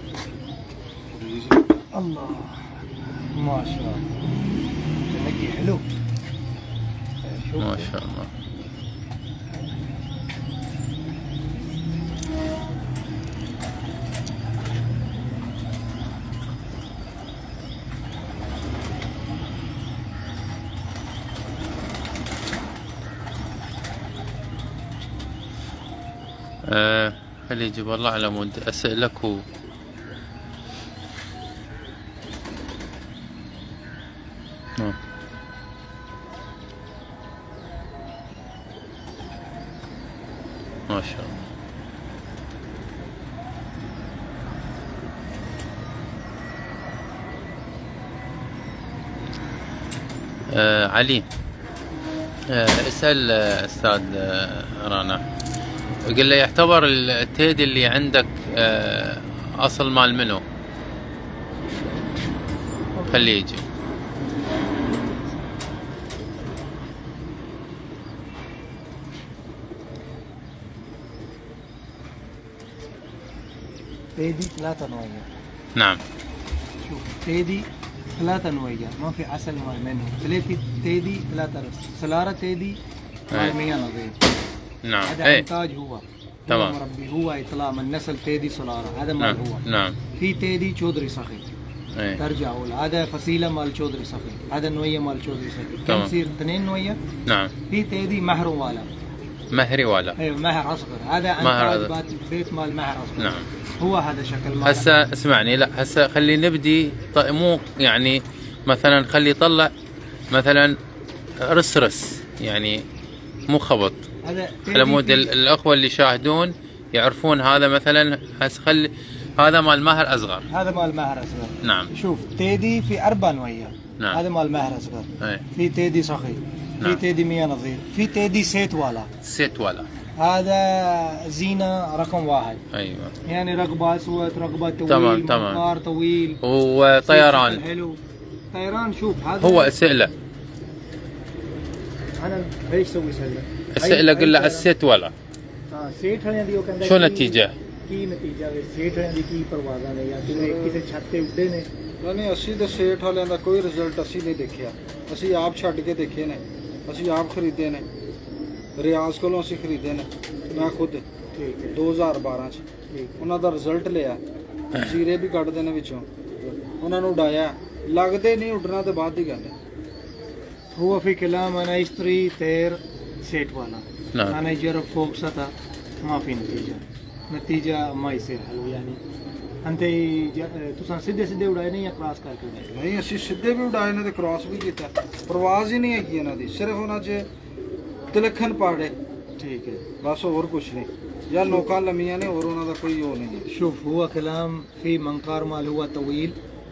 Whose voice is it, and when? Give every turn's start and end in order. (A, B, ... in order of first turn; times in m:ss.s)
0:01.1-0:01.7 A
0:01.9-0:02.7 B
0:03.3-0:04.2 B
0:05.1-0:05.8 B
0:07.2-0:07.9 B
0:07.6-0:08.3 C
0:26.6-0:29.4 C
0:40.9-0:41.4 C
0:50.5-0:51.3 C
0:52.5-0:55.2 C
0:56.1-1:00.4 C
1:03.0-1:03.3 B
1:03.1-1:03.6 C
1:14.2-1:15.3 B
1:15.8-1:16.0 C
1:16.9-1:24.2 B
1:24.8-1:25.4 C
1:25.1-1:29.6 B
1:26.5-1:26.8 C
1:29.2-1:30.0 C
1:30.2-1:31.5 B
1:32.2-1:37.0 B
1:35.9-1:36.1 C
1:37.3-1:37.5 C
1:37.7-1:38.9 B
1:39.5-1:40.2 C
1:40.2-1:44.9 B
1:41.4-1:41.9 C
1:43.2-1:43.5 C
1:44.6-1:49.7 C
1:50.3-1:50.8 C
1:51.4-1:52.8 C
1:53.5-1:54.1 C
1:54.2-1:55.3 B
1:54.7-2:00.5 C
2:00.5-2:09.1 B
2:01.6-2:01.9 C
2:09.2-2:09.9 C
2:10.2-2:12.6 B
2:12.7-2:13.2 C
2:13.3-2:16.4 B
2:14.9-2:15.6 C
2:16.4-2:17.6 C
2:17.0-2:18.0 B
2:18.5-2:19.7 B
2:19.4-2:20.1 C
2:22.2-2:24.7 B
2:23.8-2:25.1 C
2:25.7-2:31.7 B
2:26.8-2:27.6 C
2:30.3-2:30.8 A
2:32.0-2:37.9 A
2:38.8-2:41.1 A
2:41.3-2:41.8 B
2:41.7-2:42.7 A
2:42.9-2:43.2 B
2:43.2-2:44.2 A
2:44.7-2:49.6 A
2:50.8-2:59.0 B
2:59.6-3:02.7 B
3:02.7-3:07.3 A
3:08.1-3:09.0 A
3:09.4-3:09.8 B
3:10.0-3:13.5 A
3:13.5-3:16.4 B